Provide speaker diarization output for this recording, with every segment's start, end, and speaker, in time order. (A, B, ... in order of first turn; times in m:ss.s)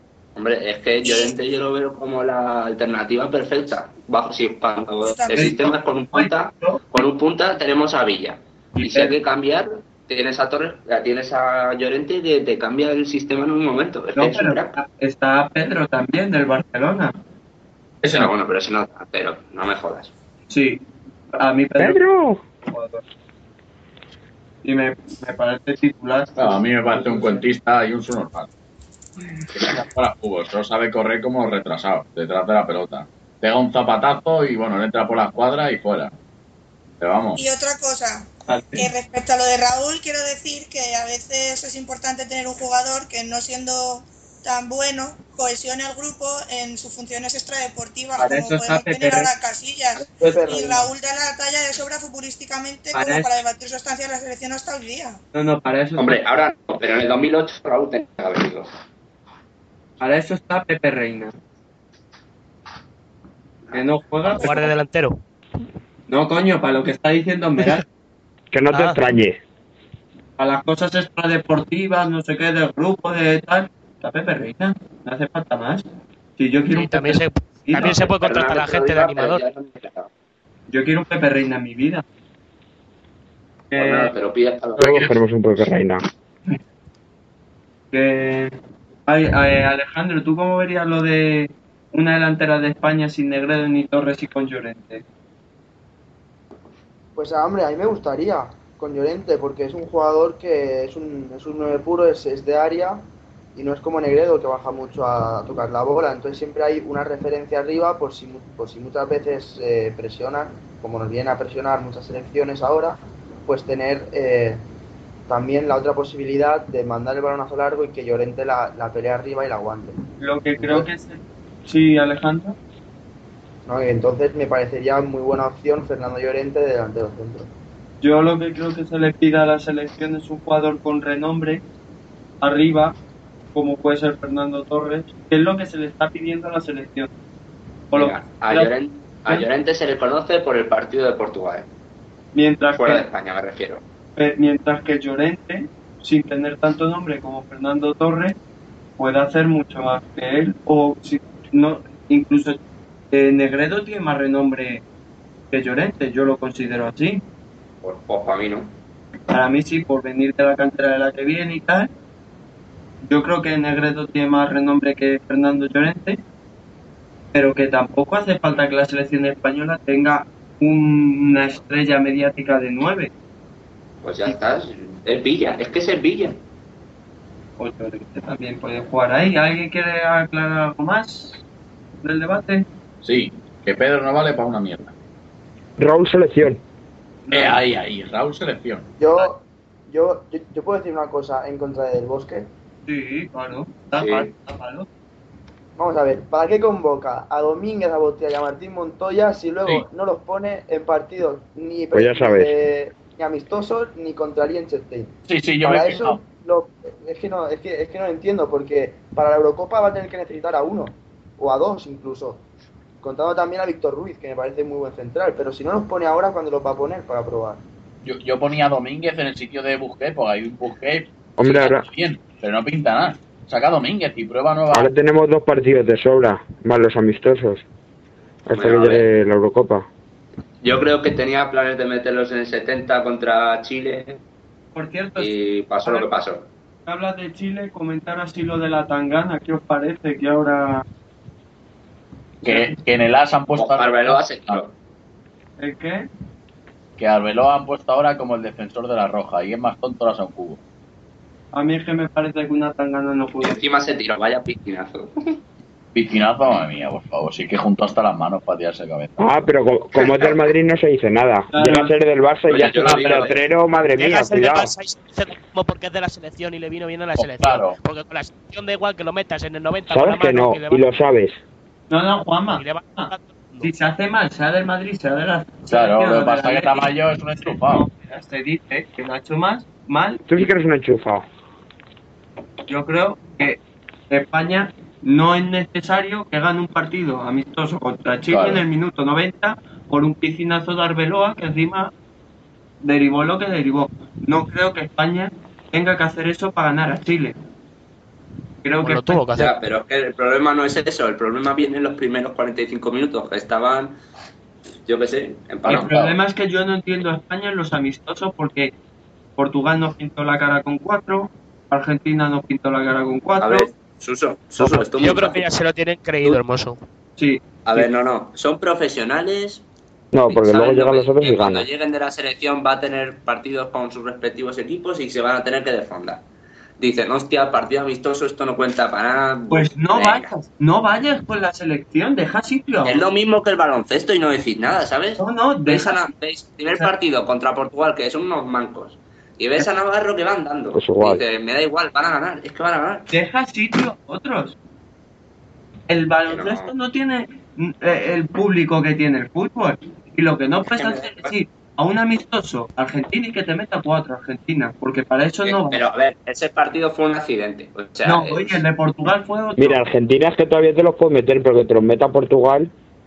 0:00.4-0:14.8 A
0:01.0-0:01.4 B
0:05.0-0:05.6 B
0:05.3-0:06.8 C
0:08.8-0:09.2 C
0:14.2-0:17.1 C
0:18.0-0:18.3 D
0:18.1-0:20.1 A
0:20.5-0:22.0 C
0:21.8-0:22.4 E
0:22.6-0:23.0 C
0:24.6-0:27.4 C
0:26.4-0:28.5 D
0:29.5-0:36.1 D
0:37.0-0:37.4 D
0:37.4-0:55.2 B
0:38.5-0:38.9 C
0:48.2-0:49.3 C
0:50.2-0:50.9 F
0:52.9-0:53.4 C
0:55.3-0:56.2 C
0:56.0-0:58.7 A
1:00.0-1:01.3 C
1:03.7-1:04.7 C
1:04.3-1:05.2 G
1:04.4-1:04.7 B
1:06.1-1:07.8 C
1:08.5-1:09.4 E
1:08.7-1:09.0 G
1:10.4-1:15.8 C
1:16.4-1:18.1 C
1:16.7-1:19.4 G
1:17.8-1:20.1 A
1:20.7-1:22.0 C
1:23.7-1:24.1 C
1:23.8-1:25.1 A
1:24.8-1:25.1 D
1:24.8-1:26.0 E
1:27.9-1:28.5 C
1:29.1-1:35.0 C
1:37.2-1:54.6 F
1:55.3-2:00.0 F
2:00.2-2:02.6 C
2:00.6-2:00.9 F
2:03.7-2:07.5 F
2:08.0-2:11.6 C
2:12.4-2:13.0 C
2:13.5-2:17.1 C
2:17.9-2:18.7 C
2:17.9-2:21.7 A
2:22.3-2:23.1 C
2:22.8-2:23.8 A
2:24.2-2:28.4 C
2:29.0-2:32.6 C
2:33.1-2:34.8 C
2:35.5-2:37.2 C
2:37.8-2:38.7 A
2:39.3-2:41.9 C
2:43.0-2:46.2 C
2:47.3-2:53.1 C
2:54.0-2:56.4 A
2:57.6-3:01.4 C
3:02.0-3:02.7 C
3:03.0-3:04.9 D
3:05.8-3:06.6 E
3:07.3-3:07.6 C
3:07.3-3:08.9 D
3:09.0-3:12.5 F
3:12.9-3:14.9 C
3:13.9-3:14.3 A
3:15.8-3:32.4 F
3:21.9-3:22.6 E
3:25.3-3:26.2 D
3:33.0-3:37.6 F
3:38.0-3:44.9 D
3:41.4-3:41.8 E
3:44.7-3:47.6 E
3:48.5-3:49.9 E
3:48.5-3:49.1 A
3:50.6-3:54.2 A
3:54.7-3:55.3 C
3:55.2-3:56.5 A
3:55.8-3:56.1 C
3:56.9-4:00.8 C
4:02.4-4:04.6 D
4:02.4-4:02.8 C
4:03.6-4:04.7 A
4:05.6-4:06.1 C
4:07.0-4:10.6 D
4:11.5-4:13.6 C
4:13.4-4:15.4 A
4:15.9-4:19.2 D
4:19.2-4:24.7 E
4:21.5-4:21.9 C
4:22.5-4:23.4 A
4:22.5-4:23.3 D
4:24.0-4:30.8 G
4:27.2-4:27.8 D
4:29.9-4:31.4 E
4:31.9-4:33.1 C
4:32.6-4:33.7 G
4:33.6-4:36.9 C
4:35.7-4:37.9 D
4:37.4-4:40.3 C
4:40.3-4:41.3 E
4:42.7-4:43.6 C
4:44.1-4:51.9 C
4:48.3-4:48.6 D
4:52.8-4:57.4 C
4:58.6-4:59.2 C
4:58.8-4:59.5 G
4:59.3-5:04.0 A
5:04.9-5:05.9 A
5:05.7-5:08.7 C
5:05.7-5:06.2 D
5:09.4-5:13.7 C
5:13.4-5:15.5 A
5:14.6-5:16.8 G
5:17.2-5:17.9 C
5:17.6-5:19.6 A
5:20.1-5:21.7 E
5:20.3-5:26.2 A
5:26.8-5:30.3 A
5:29.5-5:33.0 C
5:32.8-5:43.1 A
5:35.2-5:36.0 C
5:40.7-5:41.2 E
5:43.1-5:44.6 C
5:45.9-5:55.9 C
5:46.3-5:46.7 A
5:50.7-5:51.4 A
5:55.4-5:58.6 A
5:58.0-5:59.8 C
5:59.6-6:02.7 E